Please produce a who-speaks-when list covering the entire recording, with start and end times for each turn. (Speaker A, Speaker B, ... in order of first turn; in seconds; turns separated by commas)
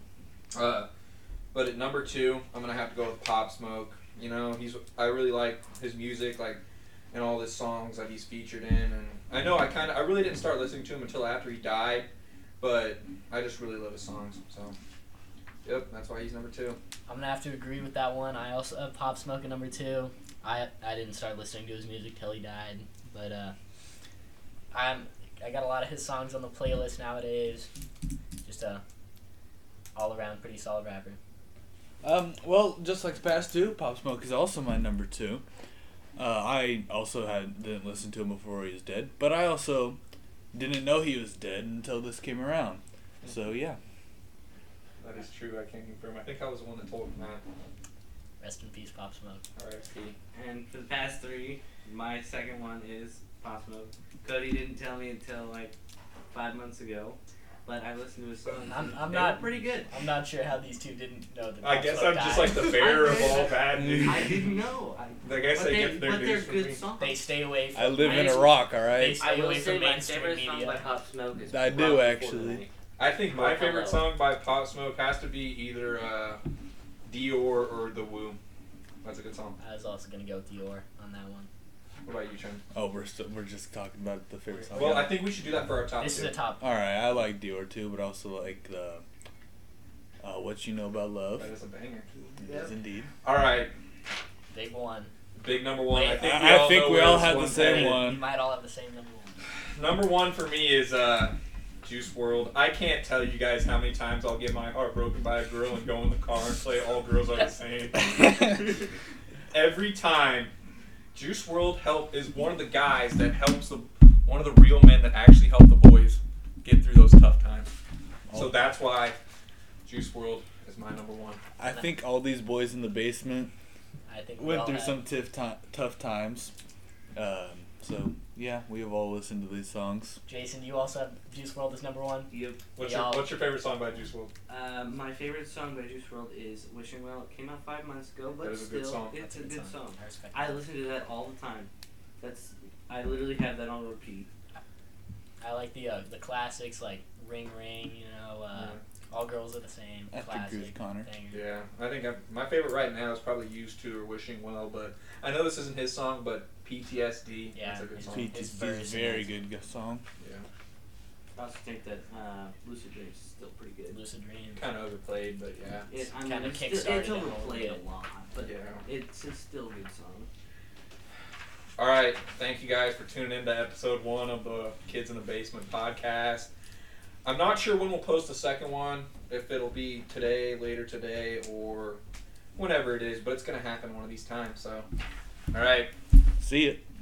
Speaker A: 0.5-0.9, Speaker A: 1.5-6.6, Speaker A: 7.1-12.1, Speaker A: 12.6-14.7, Speaker A: 15.6-16.8, Speaker B: 17.1-23.5, Speaker B: 24.7-27.7, Speaker B: 28.4-28.8, Speaker B: 29.9-31.2, Speaker C: 32.0-35.4, Speaker C: 36.1-40.0, Speaker C: 40.5-43.8, Speaker A: 45.0-47.4, Speaker B: 48.4-49.4, Speaker A: 49.5-50.1, Speaker D: 50.3-55.7, Speaker D: 56.3-59.9, Speaker B: 58.7-63.6, Speaker A: 61.6-64.4, Speaker C: 63.7-64.3, Speaker D: 64.0-67.2, Speaker A: 65.2-66.8, Speaker B: 67.0-70.9, Speaker C: 67.7-69.3, Speaker D: 68.0-68.5, Speaker D: 69.2-72.7, Speaker C: 71.5-72.6, Speaker A: 73.0-76.4, Speaker D: 73.3-73.8, Speaker B: 73.4-74.0, Speaker A: 77.1-78.4, Speaker A: 79.0-79.6, Speaker B: 79.6-81.5, Speaker A: 82.0-82.6, Speaker C: 82.7-85.2, Speaker B: 84.5-85.0, Speaker A: 84.7-86.3, Speaker B: 86.0-86.6, Speaker C: 86.6-89.0, Speaker C: 90.2-91.5, Speaker A: 91.4-92.1, Speaker D: 92.4-92.7, Speaker C: 92.4-93.1, Speaker A: 93.2-93.7, Speaker B: 94.5-95.1, Speaker A: 95.4-98.0, Speaker B: 95.9-96.3, Speaker C: 96.1-98.3, Speaker B: 97.0-99.4, Speaker A: 99.7-108.1, Speaker A: 109.5-110.5, Speaker A: 111.1-117.7, Speaker C: 118.3-118.6, Speaker A: 118.3-119.2, Speaker A: 119.8-121.4, Speaker C: 121.6-123.5, Speaker B: 121.6-121.9, Speaker B: 124.1-125.0, Speaker C: 124.4-126.5, Speaker C: 127.1-130.2, Speaker B: 130.3-133.3, Speaker D: 132.3-132.6, Speaker A: 132.7-134.3, Speaker D: 134.5-141.7, Speaker A: 138.4-139.1, Speaker B: 139.1-140.6, Speaker D: 142.2-144.3, Speaker B: 145.4-151.4, Speaker A: 148.5-148.8, Speaker C: 150.1-151.1, Speaker A: 151.3-158.3, Speaker B: 157.5-159.3, Speaker C: 158.1-160.0, Speaker A: 160.2-160.5, Speaker D: 161.3-164.0, Speaker B: 163.9-164.7, Speaker A: 164.6-165.9, Speaker D: 165.9-170.3, Speaker B: 166.2-167.8, Speaker A: 168.4-168.8, Speaker A: 171.8-176.5, Speaker A: 177.2-182.0, Speaker A: 182.6-184.9, Speaker A: 185.5-185.9, Speaker C: 186.4-186.8